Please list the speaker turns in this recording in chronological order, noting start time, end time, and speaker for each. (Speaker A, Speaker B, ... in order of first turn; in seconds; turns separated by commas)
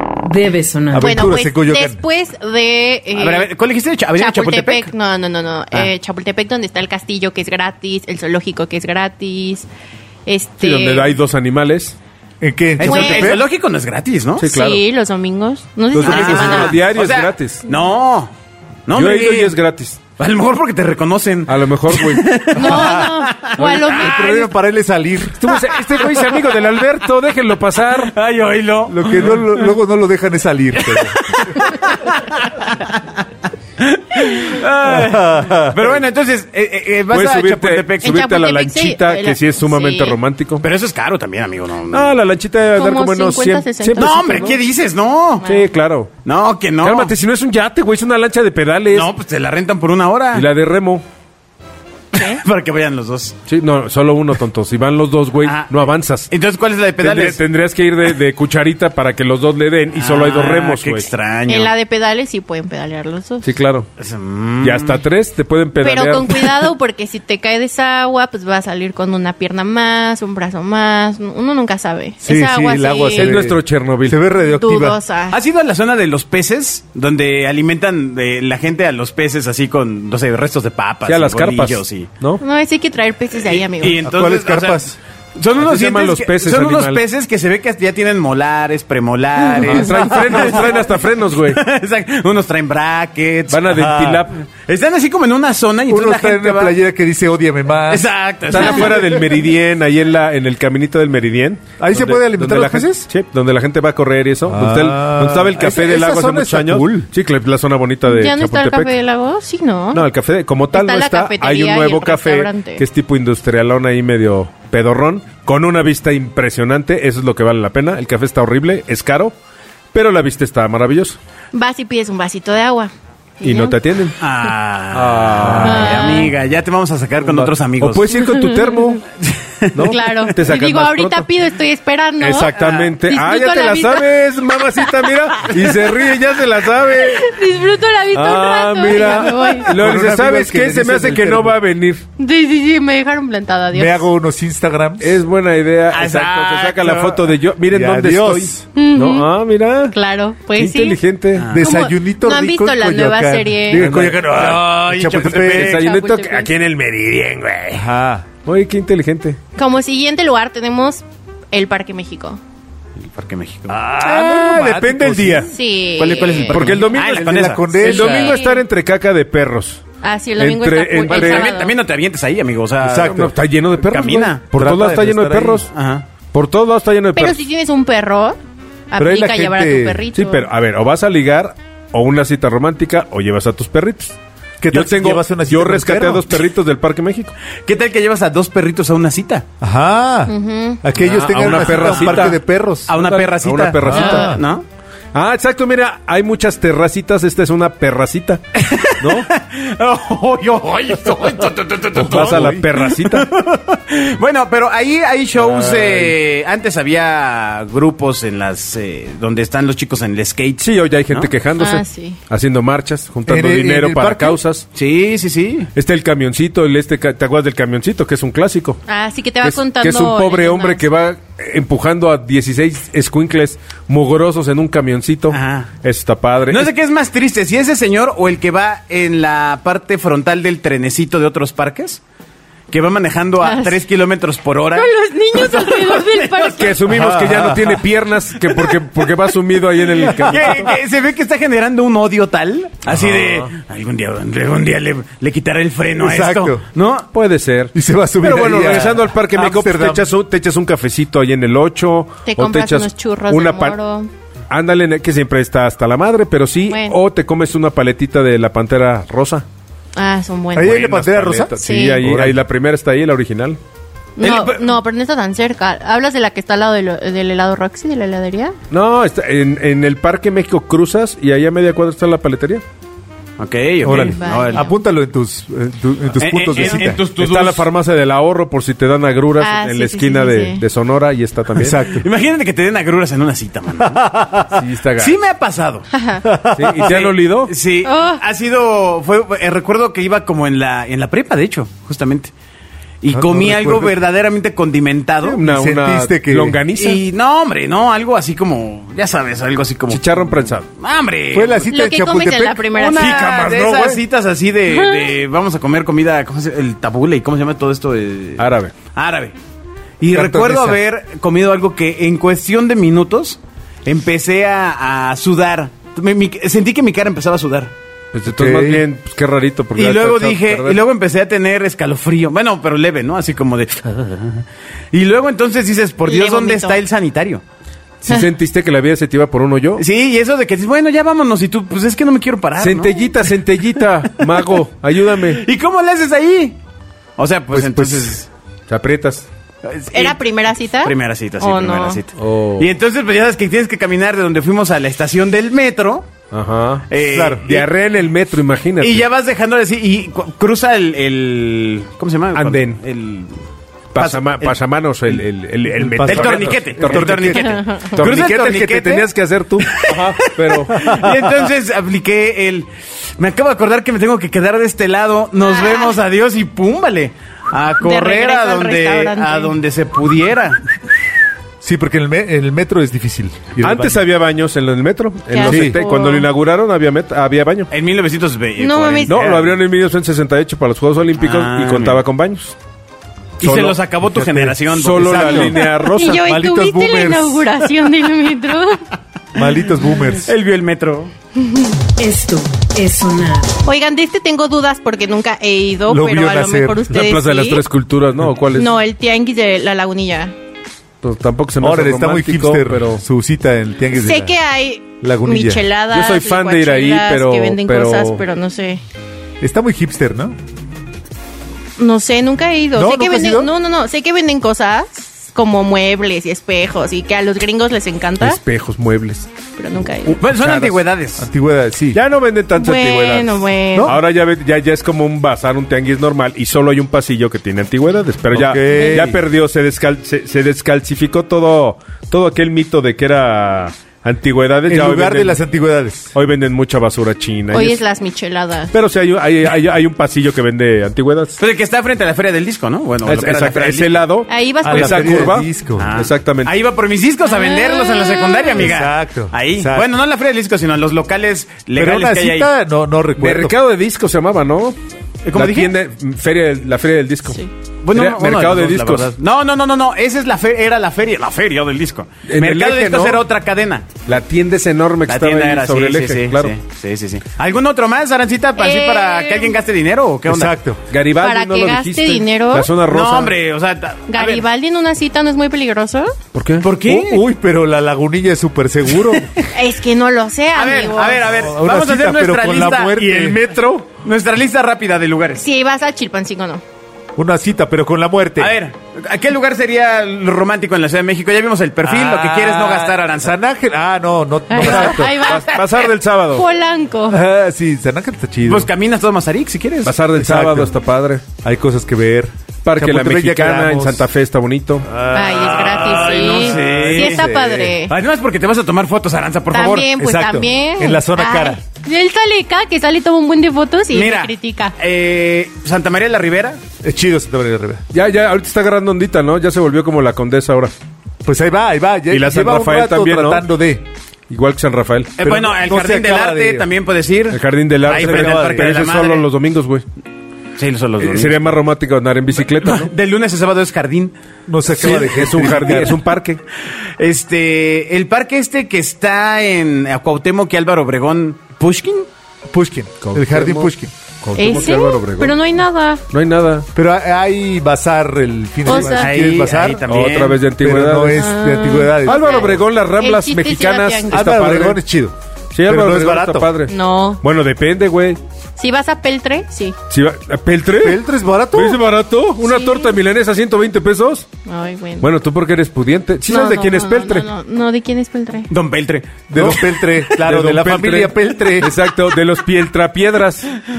Speaker A: 0.2-1.2, Speaker B: 0.9-2.0, Speaker C: 1.0-3.5, Speaker D: 3.1-4.9, Speaker C: 4.2-9.7, Speaker C: 10.3-11.2, Speaker E: 10.6-12.0, Speaker B: 12.4-13.4, Speaker D: 12.8-14.5, Speaker C: 12.8-13.4, Speaker E: 14.4-14.8, Speaker C: 14.5-16.8, Speaker E: 15.9-17.6, Speaker D: 16.0-18.3, Speaker D: 18.9-19.6, Speaker E: 18.9-20.0, Speaker D: 20.2-23.9, Speaker E: 21.5-22.7, Speaker C: 22.5-24.5, Speaker B: 23.6-25.5, Speaker E: 25.4-28.1, Speaker D: 25.5-26.8, Speaker D: 27.9-29.7, Speaker B: 28.9-31.5, Speaker D: 30.8-33.1, Speaker D: 33.8-38.2, Speaker B: 34.8-36.0, Speaker E: 37.1-40.6, Speaker C: 38.0-40.2, Speaker D: 40.6-42.1, Speaker E: 41.9-44.6, Speaker C: 42.8-44.6, Speaker D: 44.0-45.5, Speaker E: 45.4-46.1, Speaker D: 46.2-47.1, Speaker E: 46.8-49.1, Speaker D: 48.9-50.5, Speaker E: 50.3-51.0, Speaker D: 52.1-53.4, Speaker E: 53.5-56.3, Speaker D: 55.4-57.4, Speaker E: 57.0-61.1, Speaker D: 60.0-61.7, Speaker C: 61.5-63.5, Speaker E: 63.4-63.9, Speaker D: 64.0-65.0, Speaker E: 64.6-66.7, Speaker C: 65.8-73.4, Speaker B: 72.2-75.0, Speaker E: 73.2-74.2, Speaker C: 74.4-75.4, Speaker D: 75.3-82.1, Speaker E: 81.1-82.4, Speaker C: 82.4-84.0, Speaker D: 83.5-93.9, Speaker B: 84.0-85.0, Speaker E: 85.6-87.0, Speaker E: 89.6-91.6, Speaker E: 93.5-94.4, Speaker B: 93.7-94.2, Speaker D: 94.5-96.8, Speaker B: 95.9-98.1, Speaker D: 97.9-99.3, Speaker E: 98.5-108.9, Speaker B: 101.8-103.1, Speaker B: 104.5-107.1, Speaker C: 108.1-110.0, Speaker E: 109.9-119.3, Speaker C: 110.7-112.8, Speaker E: 119.9-121.2, Speaker C: 121.5-123.8, Speaker E: 123.4-124.2, Speaker D: 124.2-128.1, Speaker E: 124.9-126.2, Speaker C: 125.6-126.3, Speaker E: 127.2-129.0, Speaker C: 128.1-128.9, Speaker D: 129.2-130.1, Speaker E: 129.7-131.3, Speaker C: 129.8-134.2, Speaker E: 132.2-137.4, Speaker D: 132.6-132.9, Speaker C: 136.9-139.7, Speaker E: 138.1-142.1, Speaker B: 139.0-141.6, Speaker C: 142.2-144.1, Speaker B: 143.7-145.2, Speaker E: 145.0-150.0, Speaker D: 145.9-147.3, Speaker B: 147.7-148.7, Speaker C: 148.8-149.3, Speaker C: 149.9-151.0, Speaker E: 150.6-151.6, Speaker D: 151.3-151.7, Speaker B: 151.5-155.8, Speaker C: 151.6-153.9, Speaker E: 153.7-154.6, Speaker D: 154.1-155.8, Speaker E: 155.2-157.9, Speaker C: 155.6-156.5, Speaker B: 157.7-158.3, Speaker E: 158.4-159.4, Speaker C: 159.6-162.4, Speaker D: 163.0-163.8, Speaker B: 163.7-165.5, Speaker E: 163.9-165.5, Speaker C: 165.5-166.6, Speaker D: 166.0-167.8, Speaker E: 166.5-169.8, Speaker B: 166.6-168.3, Speaker C: 167.8-168.6, Speaker C: 170.0-171.7, Speaker E: 170.4-171.5, Speaker D: 171.1-174.4, Speaker B: 172.8-173.3, Speaker E: 173.1-175.7, Speaker B: 174.5-175.7, Speaker D: 175.7-176.1, Speaker E: 176.3-177.4, Speaker C: 177.2-178.4, Speaker C: 178.9-180.5, Speaker B: 179.0-180.1, Speaker E: 180.1-184.2, Speaker B: 184.6-186.4, Speaker E: 184.7-187.3, Speaker D: 187.7-189.5, Speaker B: 189.6-192.9, Speaker C: 190.3-190.8, Speaker E: 191.0-194.4, Speaker D: 191.5-192.3, Speaker D: 192.9-194.7, Speaker B: 193.8-194.4, Speaker E: 195.1-198.4, Speaker D: 198.6-211.3, Speaker E: 199.0-199.3, Speaker B: 201.9-202.7, Speaker E: 202.0-203.3, Speaker E: 205.5-206.1, Speaker E: 210.6-214.7, Speaker C: 211.6-212.2, Speaker B: 213.3-214.4, Speaker D: 214.7-215.7, Speaker E: 215.8-218.8, Speaker C: 218.9-220.9, Speaker E: 219.4-226.7, Speaker D: 225.3-225.7, Speaker D: 226.5-232.0, Speaker D: 232.7-236.7, Speaker C: 233.4-233.8, Speaker C: 234.8-236.8, Speaker E: 236.6-240.7, Speaker B: 236.9-237.8, Speaker D: 238.4-239.3, Speaker D: 239.8-247.1, Speaker B: 240.1-240.5, Speaker E: 242.9-243.5, Speaker B: 246.0-246.6, Speaker E: 247.1-253.8, Speaker B: 247.7-250.1, Speaker C: 252.3-254.1, Speaker E: 254.5-259.4, Speaker C: 256.7-257.0, Speaker C: 259.9-260.9, Speaker B: 260.6-262.4, Speaker E: 260.6-263.6, Speaker C: 261.6-262.0, Speaker C: 264.2-268.6, Speaker D: 264.2-264.6, Speaker E: 268.7-272.6, Speaker D: 273.4-274.6, Speaker B: 273.8-277.0, Speaker E: 273.9-274.1, Speaker C: 273.9-274.8, Speaker D: 276.2-277.7, Speaker E: 276.6-281.8, Speaker C: 279.4-280.6, Speaker B: 281.6-282.1, Speaker D: 281.7-284.1, Speaker B: 283.8-284.6, Speaker E: 284.5-285.2, Speaker D: 285.0-285.9, Speaker C: 285.9-286.2, Speaker B: 286.2-287.0, Speaker E: 286.6-287.5, Speaker D: 286.8-292.3, Speaker C: 287.8-288.2, Speaker D: 293.0-295.4, Speaker B: 293.1-294.0, Speaker E: 295.2-297.0, Speaker B: 295.4-296.6, Speaker D: 296.8-301.6, Speaker E: 299.9-300.6, Speaker B: 301.3-304.0, Speaker C: 301.7-303.2, Speaker D: 302.7-309.4, Speaker E: 303.3-303.9, Speaker C: 304.7-305.1, Speaker E: 308.4-308.7, Speaker D: 310.0-317.7, Speaker B: 310.1-310.8, Speaker E: 318.1-320.8, Speaker B: 318.3-318.9, Speaker D: 319.8-327.4, Speaker C: 326.1-326.8, Speaker E: 328.0-329.8, Speaker D: 329.8-333.3, Speaker E: 332.6-335.4, Speaker D: 334.2-334.6, Speaker D: 335.1-336.6, Speaker D: 337.2-338.3, Speaker B: 337.5-338.2, Speaker E: 338.7-339.3, Speaker D: 339.6-346.1, Speaker C: 339.9-342.0, Speaker E: 342.2-342.7, Speaker E: 346.3-346.9, Speaker D: 346.9-347.7, Speaker B: 347.0-347.5, Speaker E: 347.4-349.0, Speaker D: 348.8-353.3, Speaker E: 352.4-352.8, Speaker E: 353.9-357.4, Speaker D: 353.9-354.6, Speaker B: 355.7-359.0, Speaker D: 356.0-359.1, Speaker C: 357.5-358.0, Speaker E: 358.0-361.0, Speaker D: 359.6-370.6, Speaker B: 360.7-361.3, Speaker C: 365.4-366.0, Speaker C: 367.8-369.6, Speaker B: 371.6-374.0, Speaker E: 373.6-377.7, Speaker C: 375.3-376.3, Speaker B: 375.4-375.8, Speaker D: 377.7-379.6, Speaker C: 378.6-379.1, Speaker E: 379.1-382.6, Speaker D: 381.2-382.0, Speaker D: 383.4-385.6, Speaker E: 383.4-386.2, Speaker B: 384.9-387.5, Speaker C: 385.8-388.8, Speaker B: 389.4-390.3, Speaker D: 390.2-391.1, Speaker C: 391.4-391.7, Speaker A: 392.0-393.6, Speaker C: 393.6-397.6, Speaker B: 395.9-396.9, Speaker E: 396.9-398.7, Speaker C: 398.6-400.3, Speaker E: 401.0-403.0, Speaker B: 401.6-404.4, Speaker C: 403.9-408.8, Speaker B: 405.0-405.6, Speaker E: 405.9-408.2, Speaker B: 409.4-410.4, Speaker C: 411.8-418.4, Speaker B: 412.7-413.5, Speaker E: 418.2-419.3, Speaker C: 419.6-420.2, Speaker E: 420.1-420.8, Speaker D: 420.2-421.3, Speaker B: 421.2-422.0, Speaker E: 421.9-435.4, Speaker C: 422.6-424.0, Speaker B: 423.7-424.0, Speaker B: 428.3-429.2, Speaker C: 428.7-429.1, Speaker B: 434.7-436.1, Speaker E: 436.1-437.8, Speaker C: 437.5-438.7, Speaker E: 438.7-441.4, Speaker D: 441.4-444.0, Speaker E: 443.1-446.5, Speaker C: 444.3-445.4, Speaker B: 444.6-445.9, Speaker D: 445.8-452.5, Speaker C: 447.3-448.6, Speaker B: 448.6-449.9, Speaker B: 451.8-453.6, Speaker E: 453.2-454.8, Speaker D: 455.2-455.7, Speaker E: 455.3-457.4, Speaker D: 457.8-463.9, Speaker E: 457.9-459.1, Speaker E: 462.3-463.2, Speaker E: 464.1-466.5, Speaker D: 465.1-470.5, Speaker C: 468.6-469.5, Speaker B: 470.3-470.8, Speaker E: 470.9-473.4, Speaker C: 471.2-472.7, Speaker D: 472.9-474.4, Speaker C: 474.1-476.1, Speaker E: 476.3-476.7, Speaker D: 476.6-477.2, Speaker B: 476.9-479.3, Speaker C: 479.5-481.2, Speaker D: 480.5-483.1, Speaker B: 481.3-483.4, Speaker E: 482.9-483.9, Speaker D: 483.9-485.4, Speaker C: 485.4-486.6, Speaker B: 487.2-488.6, Speaker D: 488.4-493.4, Speaker B: 491.8-495.2, Speaker C: 494.5-497.2, Speaker E: 494.7-496.5, Speaker B: 497.1-498.7, Speaker D: 498.5-500.0, Speaker E: 499.9-501.2, Speaker B: 500.1-500.8, Speaker B: 501.4-504.1, Speaker E: 502.6-504.9, Speaker B: 504.9-507.8, Speaker C: 505.1-507.9, Speaker D: 505.1-507.3, Speaker D: 507.9-509.9, Speaker C: 509.5-514.8, Speaker B: 509.8-511.6, Speaker D: 513.9-516.6, Speaker B: 516.8-517.8, Speaker E: 517.9-520.7, Speaker B: 521.2-523.8, Speaker E: 522.1-523.4, Speaker E: 524.3-525.1, Speaker D: 525.2-529.3, Speaker B: 525.2-526.7, Speaker E: 527.3-529.8, Speaker B: 527.9-528.7, Speaker D: 530.6-531.5, Speaker E: 531.0-532.9, Speaker D: 532.4-534.1, Speaker B: 534.5-536.0, Speaker E: 534.7-536.4, Speaker D: 537.0-542.1, Speaker B: 542.5-543.9, Speaker E: 543.0-543.7, Speaker E: 544.2-545.4, Speaker C: 544.4-546.0, Speaker E: 546.1-546.7, Speaker B: 546.8-549.9, Speaker C: 548.6-549.1, Speaker D: 548.7-550.4, Speaker E: 549.9-551.3, Speaker B: 550.5-552.6, Speaker C: 551.1-554.4, Speaker E: 552.0-554.8, Speaker B: 554.1-556.5, Speaker E: 555.5-558.2, Speaker C: 556.7-557.2, Speaker C: 558.6-559.8, Speaker E: 559.9-564.3, Speaker B: 560.8-561.8, Speaker C: 562.4-563.0, Speaker C: 564.5-565.1, Speaker E: 565.0-567.3, Speaker C: 566.3-568.5, Speaker D: 568.5-569.8, Speaker B: 569.3-571.7, Speaker E: 570.1-573.5